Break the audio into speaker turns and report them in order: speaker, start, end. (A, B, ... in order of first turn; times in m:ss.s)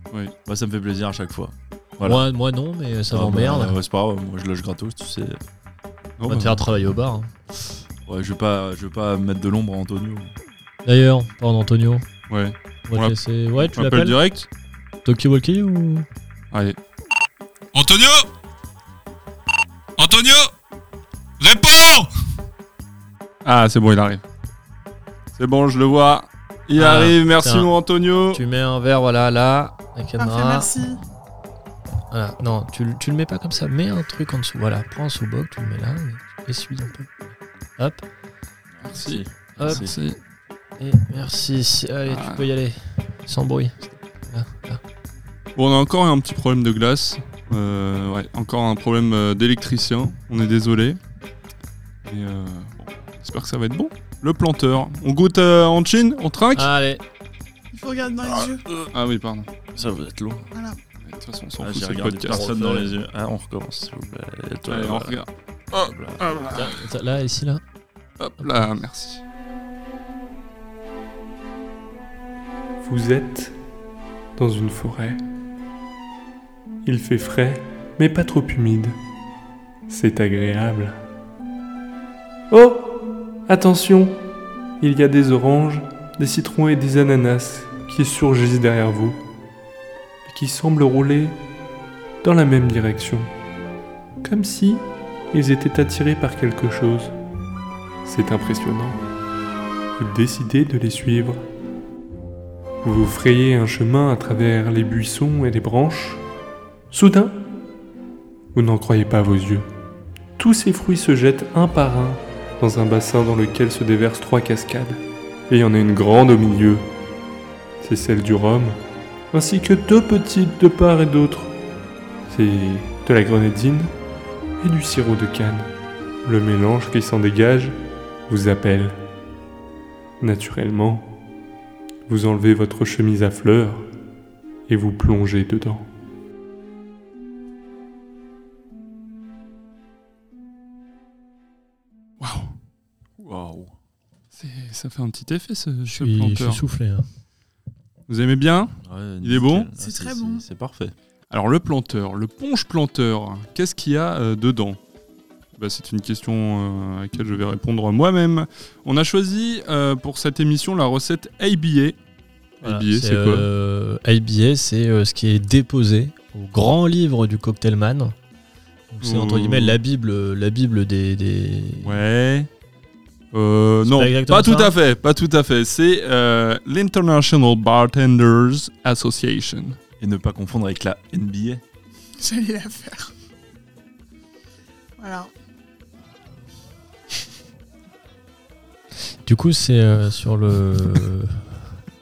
0:00.4-0:02.2 A
0:02.0-0:03.8 B
0:03.1-0:05.4 A
0:06.2-0:06.6 C
0:06.3-0:07.3 B
0:08.1-0:10.3 A
0:10.8-0:12.0 B
0:12.3-0:13.2 C
0:12.9-0:14.2 B
0:13.7-0:14.5 C
0:15.0-0:16.0 B
0:16.5-0:16.8 C
0:17.7-0:18.3 C
0:20.0-0:20.5 C
0:21.4-0:22.1 C
0:23.4-0:24.2 C
0:25.4-0:28.4 C
0:26.7-0:27.7 B
0:28.3-0:30.7 B
0:30.2-0:31.0 D
0:32.1-0:38.0 B
0:38.7-0:40.0 A
0:38.8-0:40.2 C
0:39.6-0:39.9 B
0:40.8-0:44.8 B
0:42.1-0:42.4 C
0:45.6-0:51.0 C
0:52.0-0:56.7 C
0:56.5-0:57.0 B
0:57.7-0:58.6 D
0:58.8-0:59.5 C
0:59.7-1:00.5 A
1:00.5-1:00.8 D
1:01.0-1:02.6 C
1:01.6-1:06.3 A
1:02.3-1:02.8 B
1:04.6-1:06.8 C
1:06.5-1:07.6 B
1:08.2-1:09.2 C
1:08.4-1:08.7 B
1:12.8-1:13.5 E
1:14.4-1:15.2 E
1:16.8-1:19.0 E
1:19.9-1:21.0 E
1:22.5-1:24.2 E
1:24.8-1:29.2 E
1:30.2-1:31.4 E
1:32.2-1:33.3 E
1:34.2-1:37.1 E
1:38.0-1:39.0 E
1:40.0-1:41.4 E
1:42.8-1:46.2 E
1:46.9-1:47.4 E
1:48.5-1:49.7 E
1:50.4-1:56.9 E
1:57.8-1:58.8 E
1:59.3-2:01.5 E
2:02.3-2:03.9 E
2:04.6-2:05.7 E
2:06.2-2:09.0 E
2:10.2-2:11.1 E
2:12.0-2:13.8 E
2:14.7-2:15.8 E
2:22.2-2:22.5 C
2:23.2-2:23.7 A
2:24.3-2:26.6 C
2:25.9-2:27.0 B
2:28.1-2:29.7 C
2:28.8-2:30.9 A
2:29.8-2:30.4 D
2:31.3-2:34.8 C
2:35.5-2:42.0 C
2:42.6-2:43.5 C
2:42.6-2:48.1 B
2:48.9-2:52.0 B
2:49.0-2:49.8 C
2:51.8-2:52.5 C
2:53.3-2:59.8 C
2:53.8-2:54.7 B
3:00.0-3:01.6 A
3:02.2-3:03.1 D
3:05.0-3:05.3 D
3:09.2-3:11.4 B